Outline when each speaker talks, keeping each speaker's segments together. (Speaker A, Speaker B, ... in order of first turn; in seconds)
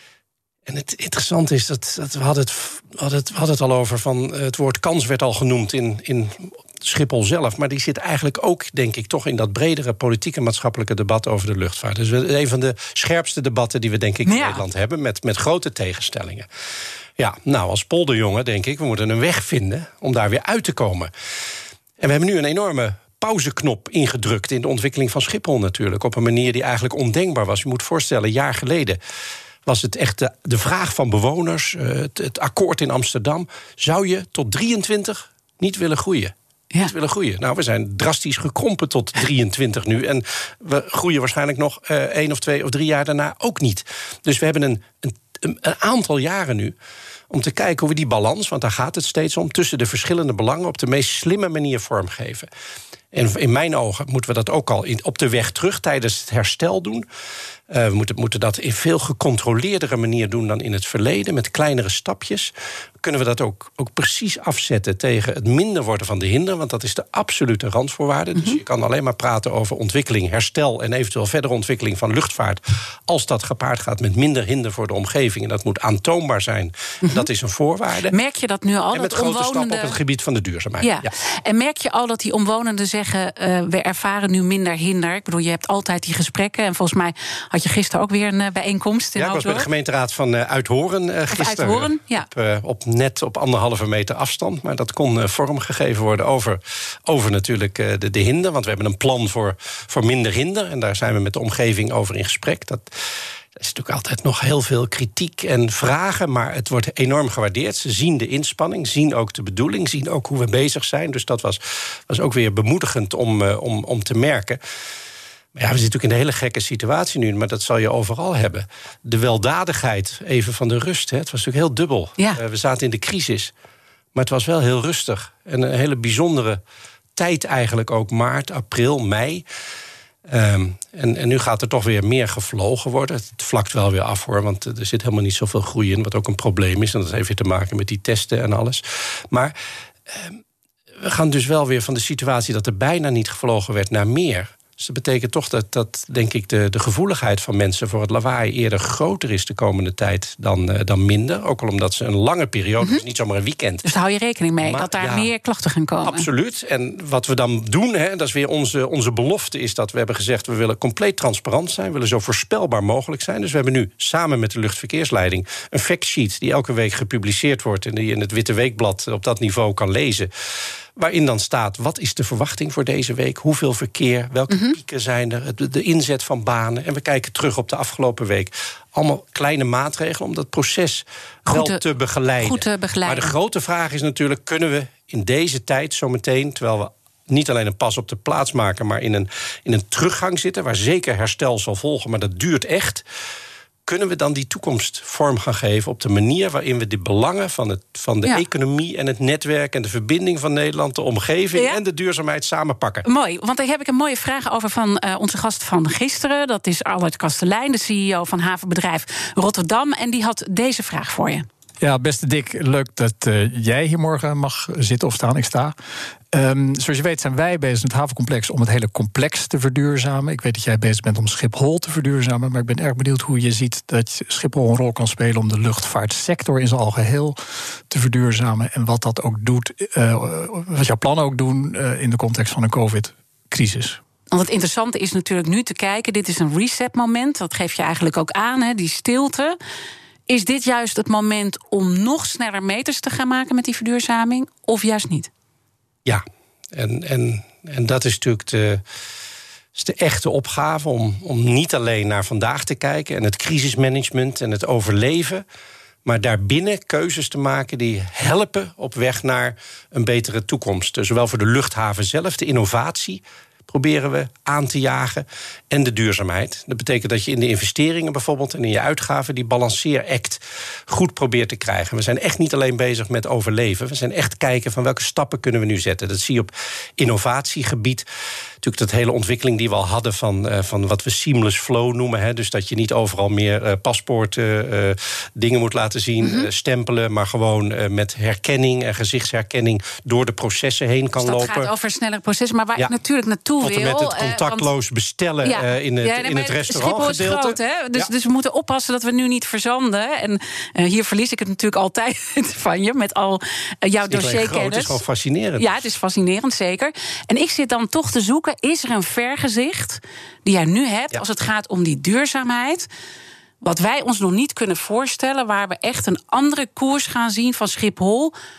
Speaker A: 0.7-16.5, 17.2-21.1, 22.0-29.0, 29.6-46.8, 47.3-52.5, 53.1-57.1, 57.7-78.1, 78.9-81.1, 89.2-103.0, 103.5-114.6, 115.5-123.5, 124.1-126.6, 127.2-129.4, 130.3-139.6, 140.1-140.4, 141.0-153.9, 154.6-155.3, 156.0-170.3, 171.0-193.1, 193.9-203.1, 246.1-248.8, 249.8-255.4, 256.1-278.1, 278.6-291.7, 293.6-298.1, 304.1-305.7
Speaker B: 14.3-14.6, 78.1-80.0, 80.8-89.7, 91.3-92.3, 153.8-156.3, 174.5-174.8, 181.5-181.8, 182.4-183.3, 203.1-211.5, 234.3-239.6, 240.3-245.3, 286.2-286.5, 291.2-294.7, 295.4-305.0, 305.6-312.9, 313.6-318.3
Speaker C: 211.8-215.8, 216.3-227.4, 227.9-234.0